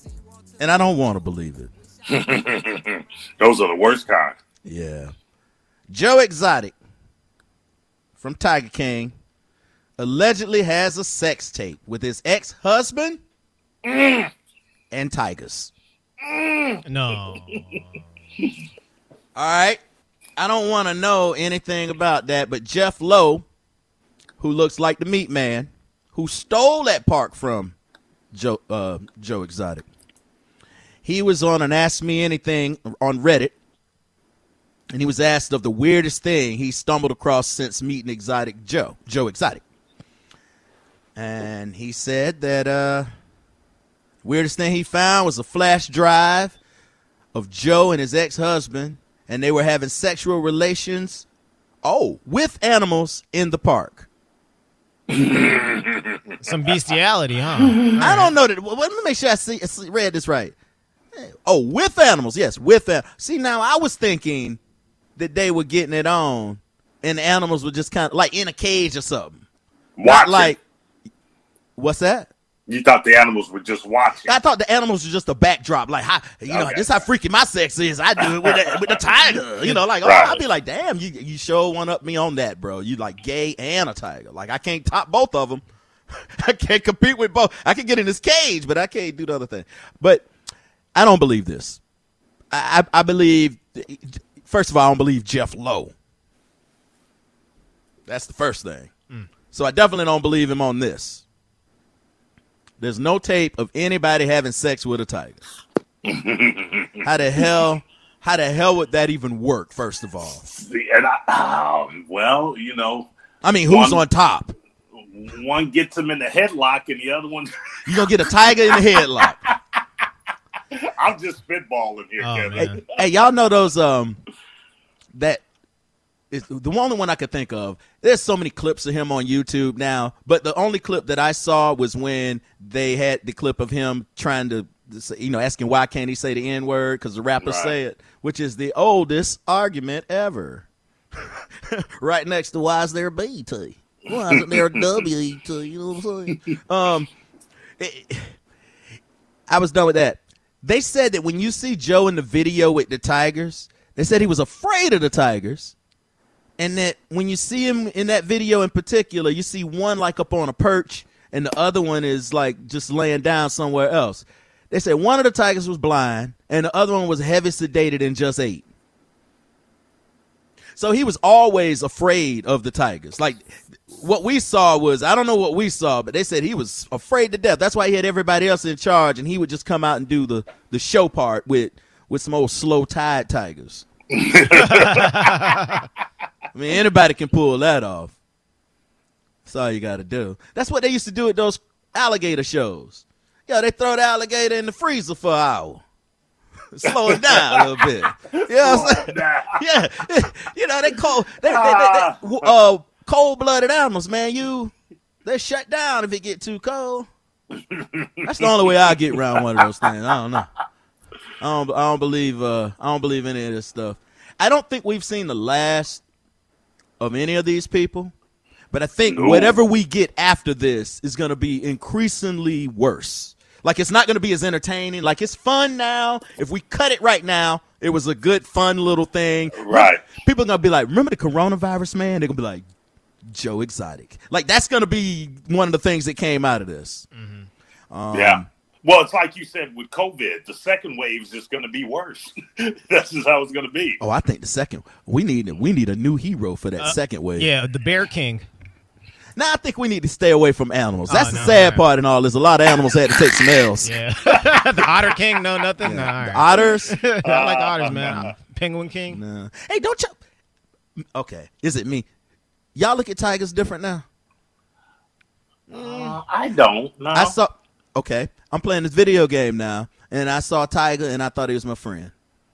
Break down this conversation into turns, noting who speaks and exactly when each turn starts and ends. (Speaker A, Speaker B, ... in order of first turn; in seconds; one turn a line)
Speaker A: 0.6-1.7
Speaker B: 2.1-4.3
Speaker A: 4.6-5.1
Speaker A: 5.9-6.7
Speaker A: 8.2-9.1
Speaker A: 10.0-13.2
Speaker B: 13.8-14.3
Speaker A: 14.9-15.7
Speaker B: 16.2-16.8
Speaker C: 16.8-18.0
Speaker A: 19.4-19.8
Speaker A: 20.4-23.4
Speaker A: 24.4-27.7
Speaker A: 28.3-29.9
Speaker A: 31.0-33.5
Speaker A: 34.9-39.6
Speaker A: 41.1-43.1
Speaker A: 44.2-46.6
Speaker A: 47.3-51.2
Speaker A: 51.8-54.1
Speaker B: 55.1-56.3
Speaker C: 56.4-58.3
Speaker A: 57.9-60.5
Speaker A: 61.1-64.6
Speaker A: 65.2-69.4
Speaker B: 70.0-70.5
Speaker A: 70.0-70.6
Speaker A: 71.8-72.3
Speaker B: 72.7-74.3
Speaker A: 74.2-85.6
Speaker B: 76.5-77.0
Speaker B: 78.2-78.8
Speaker B: 80.0-80.4
Speaker A: 86.2-90.3
Speaker A: 90.9-91.8
Speaker A: 92.5-95.9
Speaker A: 98.1-98.9
Speaker A: 99.5-101.2
Speaker A: 102.8-105.4
Speaker B: 106.0-107.0
Speaker A: 107.0-110.4
Speaker B: 110.5-113.1
Speaker A: 113.4-114.5
Speaker B: 113.7-114.0
Speaker B: 115.0-117.5
Speaker A: 117.9-119.4
Speaker B: 118.0-119.5
Speaker B: 120.8-122.8
Speaker C: 122.2-122.8
Speaker A: 122.5-124.2
Speaker A: 125.1-125.4
Speaker A: 126.3-140.7
Speaker B: 137.4-137.8
Speaker A: 141.4-147.1
Speaker B: 144.1-145.0
Speaker A: 147.8-148.3
Speaker A: 149.5-155.7
Speaker A: 156.6-168.6
Speaker A: 170.8-183.8
Speaker B: 184.1-185.5
Speaker C: 184.7-185.8
Speaker A: 186.5-188.1
Speaker A: 189.4-195.8
Speaker A: 196.7-204.7
Speaker B: 197.1-199.6
Speaker B: 201.4-202.4
Speaker A: 205.2-207.1
Speaker B: 207.7-208.5
Speaker A: 208.2-210.5
Speaker B: 209.1-209.6
Speaker A: 211.4-216.0
Speaker A: 217.0-218.1
Speaker A: 218.7-232.6
Speaker B: 219.1-219.6
Speaker B: 229.5-230.1
Speaker A: 233.3-237.1
Speaker C: 237.1-237.5
Speaker A: 237.9-238.5
Speaker B: 238.1-244.0
Speaker A: 244.0-247.5
Speaker C: 246.8-248.5
Speaker A: 249.3-254.0
Speaker C: 251.1-251.9
Speaker C: 253.8-259.2
Speaker A: 255.8-257.0
Speaker B: 257.2-258.3
Speaker A: 259.1-260.2
Speaker A: 261.1-262.1
Speaker A: 262.7-264.0
Speaker A: 265.7-266.2
Speaker B: 265.7-267.3
Speaker A: 267.1-272.1